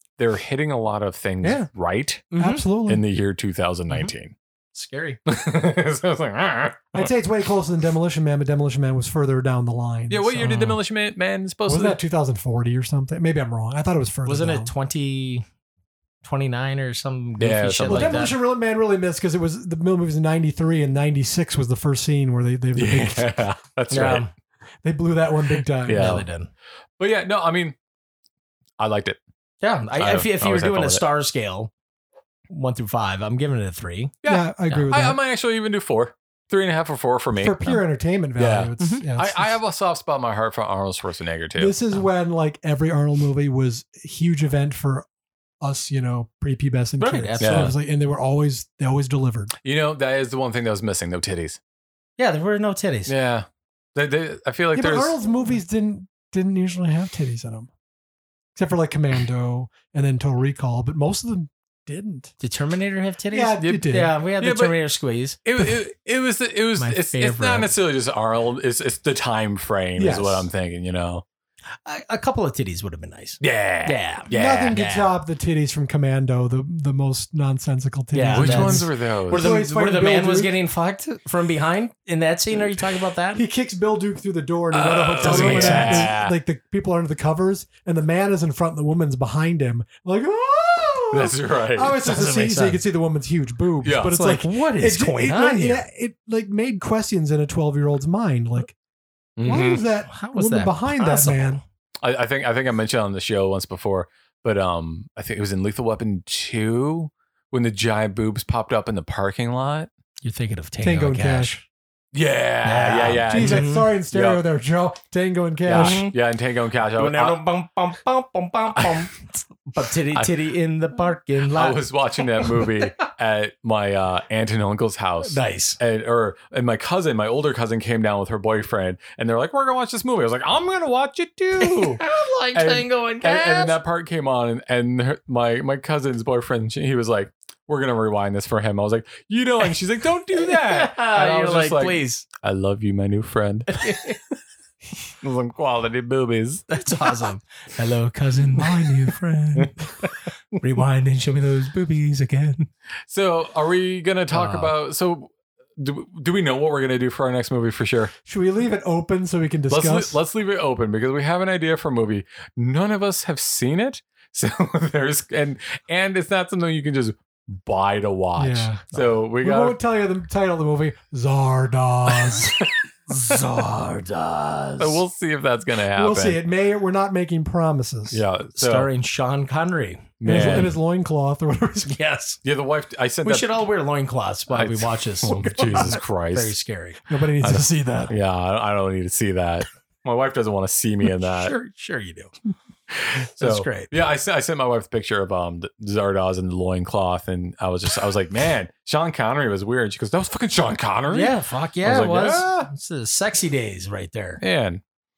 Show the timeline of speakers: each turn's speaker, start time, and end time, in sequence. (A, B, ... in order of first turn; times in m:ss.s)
0:00.2-0:02.3 A
0:01.4-0:01.7 B
0:02.3-0:02.7 C
0:02.4-0:03.0 B
0:02.9-0:04.3 A
0:04.7-0:05.2 C
0:05.3-0:07.1 A
0:06.9-0:10.8 B
0:10.1-0:12.0 A
0:11.7-0:14.7 B
0:14.3-0:15.4 C
0:16.2-0:18.4 C
0:17.4-0:18.3 A
0:17.9-0:23.4 B
0:22.8-0:24.2 A
0:23.9-0:24.3 C
0:24.8-0:26.2 B
0:25.9-0:26.3 A
0:25.9-0:26.5 C
0:27.0-0:27.8 A
0:28.8-0:29.2 A
0:29.6-0:31.7 C
0:30.0-0:31.0 A
0:32.5-0:34.1 C
0:34.2-0:37.8 A
0:34.2-0:35.2 B
0:37.4-0:39.6 B
0:38.4-0:41.8 A
0:38.8-0:39.0 C
0:41.6-0:45.1 B
0:45.6-0:49.5 B
0:47.0-0:47.8 C
0:47.4-0:47.8 A
0:49.6-0:51.6 A
0:52.2-0:53.1 C
0:53.1-0:55.2 A
0:54.7-0:57.7 B
0:58.6-1:02.3 B
1:02.4-1:05.4 C
1:03.3-1:04.1 B
1:03.6-1:04.8 A
1:05.4-1:11.2 A
1:06.8-1:07.7 C
1:10.0-1:10.5 B
1:11.8-1:15.2 C
1:13.4-1:14.8 A
1:14.3-1:20.6 B
1:18.1-1:23.4 C
1:18.3-1:19.6 A
1:23.4-1:38.8 B
1:24.7-1:26.4 A
1:24.9-1:26.1 C
1:31.1-1:32.0 A
1:32.0-1:32.8 C
1:33.8-1:34.2 A
1:34.0-1:35.8 C
1:39.4-1:39.8 A
1:39.4-1:41.6 B
1:40.1-1:41.6 C
1:42.0-1:49.9 A
1:50.2-1:51.6 C
1:50.8-1:51.6 B
1:52.1-1:54.4 A
1:52.6-1:53.9 C
1:53.2-1:56.0 B
1:55.7-1:57.4 A
1:55.7-1:56.2 C
1:57.0-2:02.9 C
1:58.8-1:59.0 A
2:01.5-2:23.9 A
2:05.2-2:05.8 C
2:11.6-2:13.8 C
2:20.3-2:22.3 C
2:23.7-2:24.2 C
2:25.2-2:27.1 A
2:26.7-2:29.8 C
2:28.5-2:29.2 B
2:30.6-2:32.7 C
2:33.1-2:38.1 A
2:34.3-2:34.7 C
2:38.3-2:40.2 B
2:39.7-2:49.8 A
2:48.4-2:48.8 B
2:49.4-2:52.6 B
2:53.1-2:55.0 C
2:54.8-2:56.5 A
2:55.9-2:58.2 B
2:58.1-2:58.9 A
2:58.5-3:00.7 C
3:00.2-3:00.8 A
3:00.2-3:02.0 B
3:01.9-3:02.4 C
3:02.4-3:03.6 A
3:03.2-3:07.0 C
3:04.5-3:06.6 A
3:07.1-3:08.2 B
3:07.4-3:11.5 A
3:11.2-3:12.3 C
3:12.9-3:22.7 A
3:13.4-3:13.9 C
3:21.1-3:24.4 C
3:24.4-3:24.8 A